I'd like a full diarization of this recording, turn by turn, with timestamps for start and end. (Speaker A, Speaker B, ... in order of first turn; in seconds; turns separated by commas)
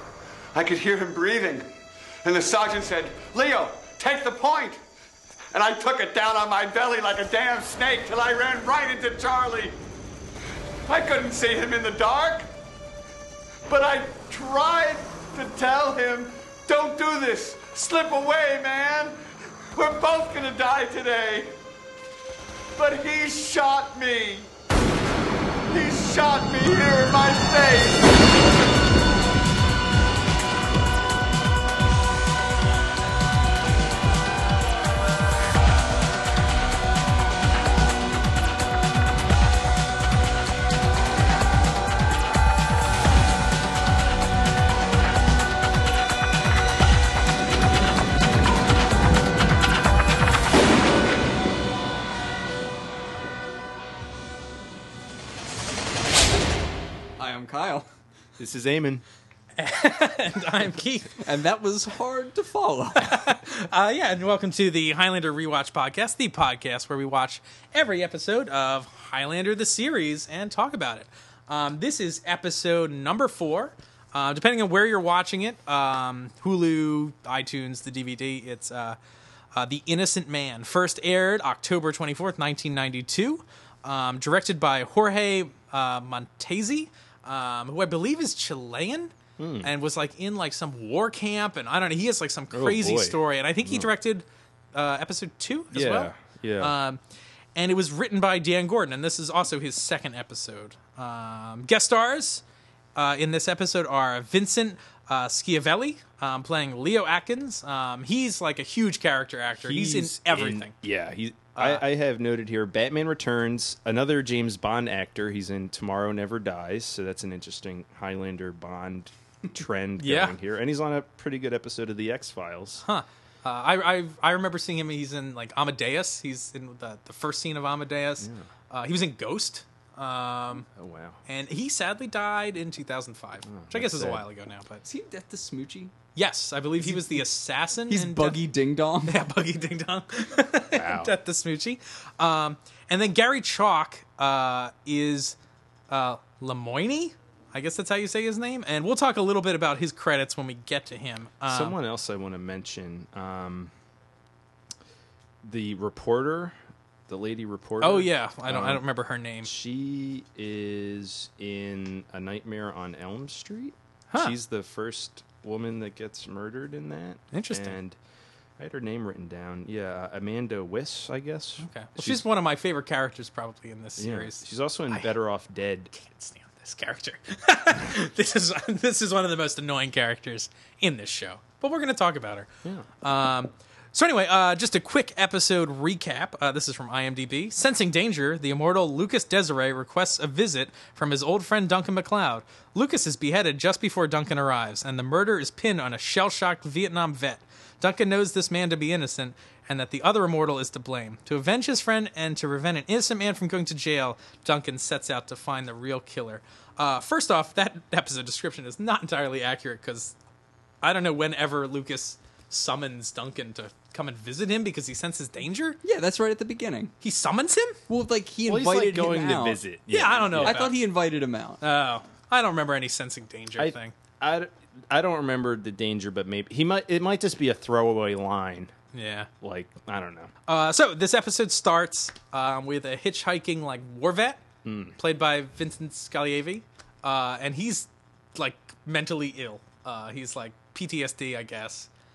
Speaker A: 0.5-1.7, Speaker A: 2.2-4.8, Speaker A: 5.5-9.8, Speaker A: 10.8-12.5, Speaker A: 13.7-19.2, Speaker A: 19.7-21.6, Speaker A: 22.8-24.5, Speaker A: 25.7-28.1, Speaker B: 57.2-57.9, Speaker C: 58.4-59.0, Speaker D: 59.6-61.1, Speaker B: 61.2-63.2, Speaker D: 63.0-79.0, Speaker D: 79.5-97.0, Speaker C: 89.4-89.7, Speaker C: 92.5-93.9, Speaker C: 95.7-96.7, Speaker D: 97.5-102.4, Speaker D: 103.0-110.7, Speaker C: 109.6-122.8, Speaker D: 111.5-111.8, Speaker D: 120.0-120.3, Speaker D: 122.8-130.7, Speaker C: 128.2-128.4, Speaker C: 130.7-131.2, Speaker D: 131.2-134.8, Speaker C: 133.5-134.2, Speaker B: 134.8-135.9, Speaker D: 136.2-138.4, Speaker B: 136.8-137.2, Speaker B: 137.9-139.2, Speaker D: 139.0-145.3, Speaker C: 140.7-141.1, Speaker D: 145.9-151.8, Speaker C: 151.4-153.7, Speaker C: 155.4-156.6, Speaker C: 157.1-158.8, Speaker D: 157.8-159.5, Speaker C: 159.4-167.9, Speaker D: 164.1-164.4, Speaker D: 167.3-167.8, Speaker C: 168.6-172.2, Speaker D: 171.6-175.1, Speaker C: 174.0-175.9, Speaker D: 175.9-182.5, Speaker D: 183.0-210.1, Speaker D: 210.8-215.8, Speaker B: 215.8-216.9, Speaker D: 217.0-217.8, Speaker B: 217.9-219.6, Speaker C: 218.4-220.7, Speaker D: 219.9-220.9, Speaker B: 220.4-221.6, Speaker D: 221.6-223.9, Speaker C: 223.6-228.7, Speaker D: 228.9-229.3, Speaker C: 229.4-230.3, Speaker D: 230.5-234.4, Speaker C: 234.6-235.0, Speaker D: 235.0-241.9